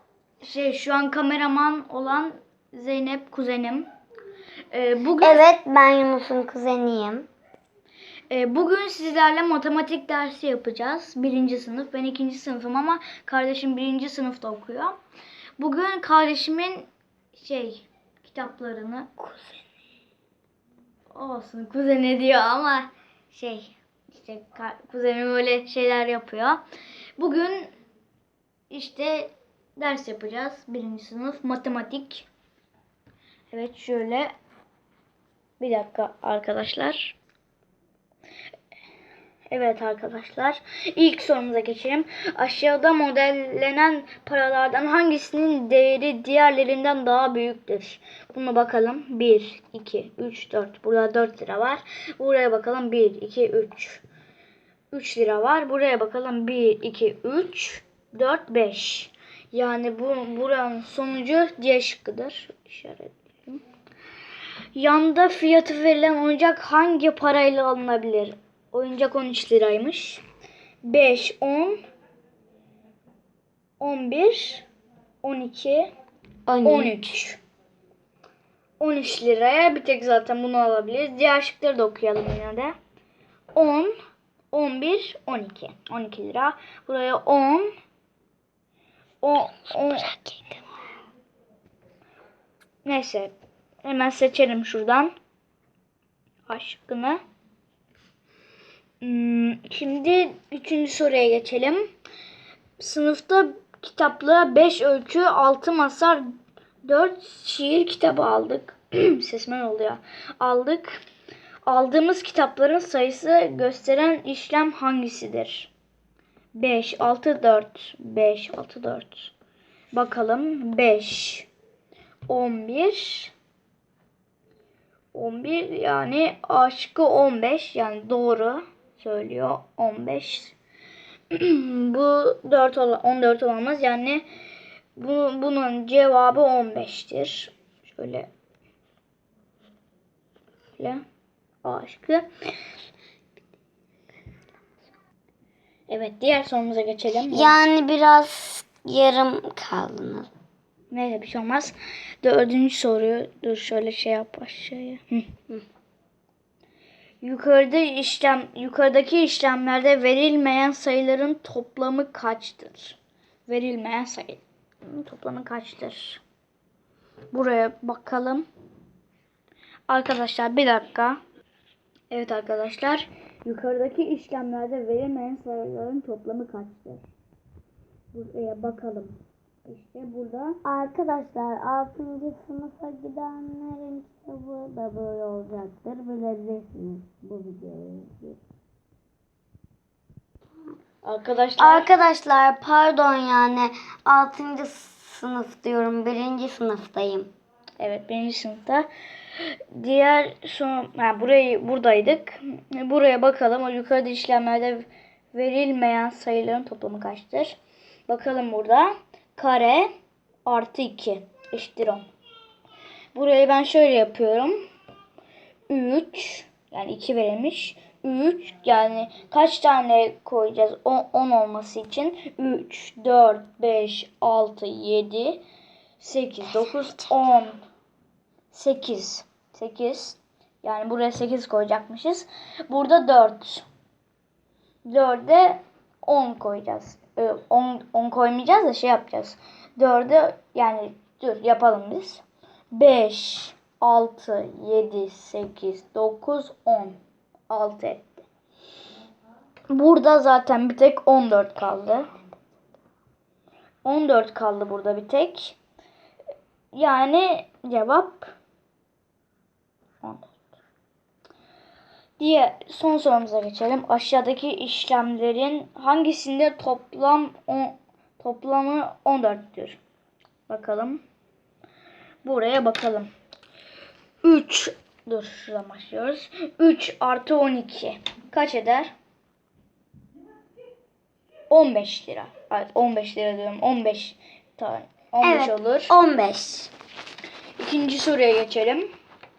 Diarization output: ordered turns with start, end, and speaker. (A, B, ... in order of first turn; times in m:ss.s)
0:00.4-0:03.9 A
0:04.7-0:05.4 A
0:05.2-0:07.3 B
0:08.3-0:15.0 A
0:15.6-0:19.2 A
0:19.2-0:19.6 B
0:21.1-0:26.6 A
0:27.2-0:27.7 A
0:28.7-0:32.3 A
0:33.5-0:34.3 A
0:35.6-0:37.2 A
0:39.5-0:54.0 A
0:54.9-1:03.6 A
1:04.8-1:10.2 A
1:10.8-1:11.8 A
1:13.8-1:14.7 A
1:15.2-1:15.9 A
1:16.5-1:17.1 B
1:16.6-1:17.4 A
1:18.8-1:22.7 A
1:23.6-1:23.9 A
1:24.5-1:27.7 A
1:29.2-1:30.1 A
1:29.7-1:30.6 B
1:32.8-1:33.3 A
1:33.8-1:35.1 A
1:36.5-1:37.2 A
1:39.0-1:41.8 A
1:42.8-1:46.2 A
1:46.8-1:51.0 A
1:51.7-1:55.7 A
1:56.6-1:59.3 A
1:59.9-2:01.5 A
2:02.3-2:03.3 A
2:05.1-2:10.6 A
2:11.3-2:14.2 A
2:15.0-2:18.3 A
2:20.8-2:21.0 A
2:21.6-2:22.2 A
2:25.9-2:27.6 A
2:27.3-2:30.3 B
2:30.9-2:35.3 A
2:37.2-2:46.2 A
2:47.3-2:48.5 A
2:49.9-2:51.2 A
2:52.1-2:57.1 A
2:58.1-3:00.6 A
3:00.6-3:08.4 B
3:11.0-3:11.9 A
3:11.6-3:17.3 B
3:17.8-3:18.9 A
3:19.4-3:27.6 A
3:28.1-3:29.9 A
3:30.4-3:32.1 A
3:33.2-3:34.5 A
3:35.7-3:45.4 A
3:46.0-3:47.6 A
3:48.5-3:53.7 A
3:54.9-4:07.0 A
4:07.5-4:08.3 A
4:09.7-4:12.1 A
4:13.8-4:15.6 A
4:16.8-4:18.3 A
4:20.0-4:20.4 A
4:22.2-4:29.8 A
4:30.5-4:31.0 A
4:32.2-4:33.1 A
4:34.2-4:38.9 A
4:41.5-4:45.9 A
4:45.2-4:46.7 B
4:47.6-4:48.8 A